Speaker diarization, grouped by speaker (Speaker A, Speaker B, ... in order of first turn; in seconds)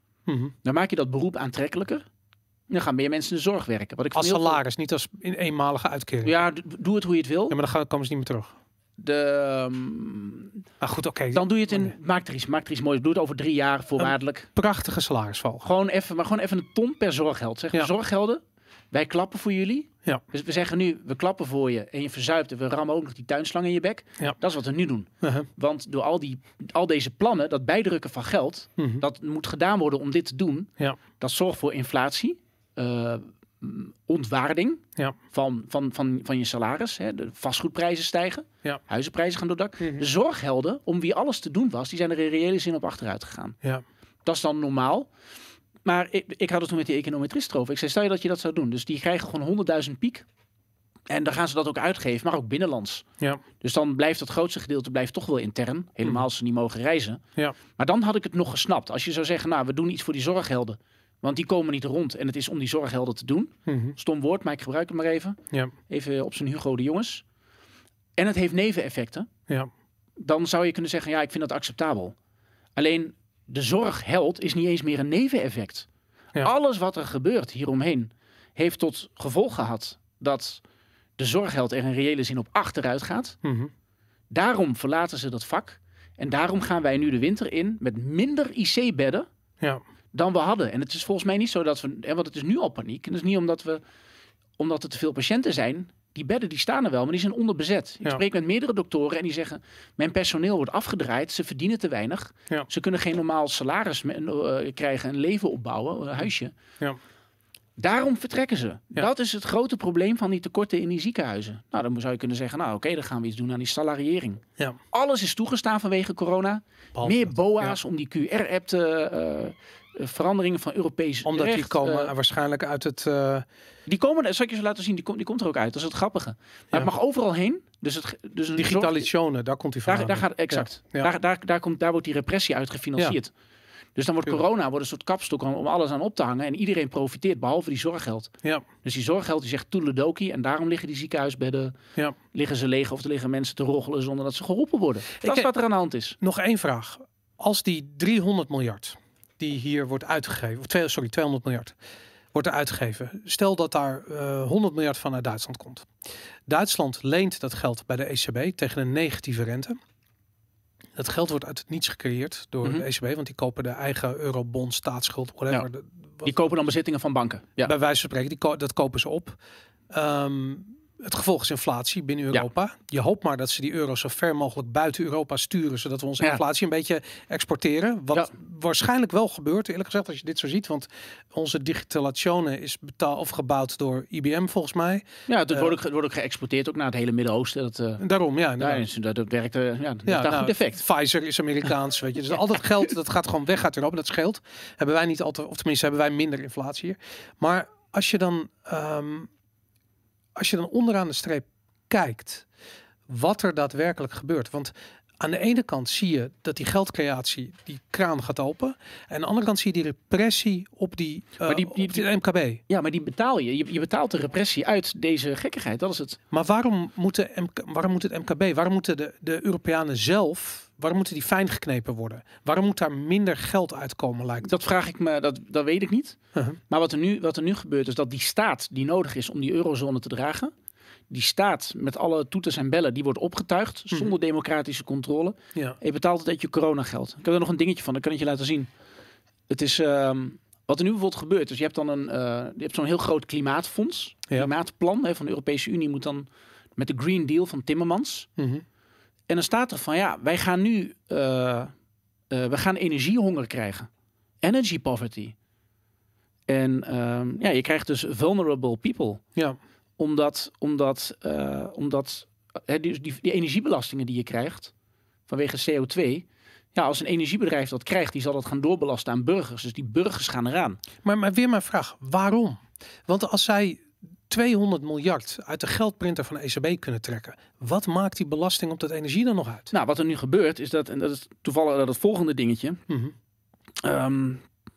Speaker A: 0.3-0.6, 4.2-6.3, 7.5-8.5, 10.8-11.9, 14.0-15.7, 25.2-25.5, 28.8-29.1, 39.8-40.1, 63.7-64.0, 83.4-83.7, 117.0-117.8, 121.2-123.5, 128.5-131.1, 145.2-145.5, 146.2-151.8, 152.3-155.9, 156.5-159.8, 161.0-166.3, 167.6-169.4, 169.9-185.7, 188.0-188.8, 190.1-199.3, 200.3-202.5, 203.1-212.6, 216.3-224.5, 226.3-226.6, 248.4-248.7, 271.0-279.7, 282.9-283.1
Speaker B: 0.6-2.0, 2.7-4.6, 6.2-7.6, 9.0-10.6, 11.3-14.5, 15.6-18.4, 18.9-43.6, 44.2-45.1, 45.9-50.3, 51.1-53.0, 53.6-57.2, 57.8-65.4, 65.9-67.2, 68.2-69.3, 70.2-72.2, 72.8-75.9, 76.4-80.6, 81.2-83.4, 84.3-89.3, 90.1-93.8, 94.6-106.5, 107.8-122.1, 123.9-129.1, 129.9-133.3, 134.0-138.3, 138.8-141.8, 142.3-146.2, 166.2-167.7, 185.3-188.0, 188.6-190.8, 211.4-212.1, 212.7-216.2, 224.4-226.2, 226.7-230.5, 231.1-238.7, 239.5-248.3, 249.3-251.7, 252.3-253.9, 254.4-255.3, 256.5-259.2, 260.0-264.7, 265.3-270.8, 279.7-282.8, 283.8-284.4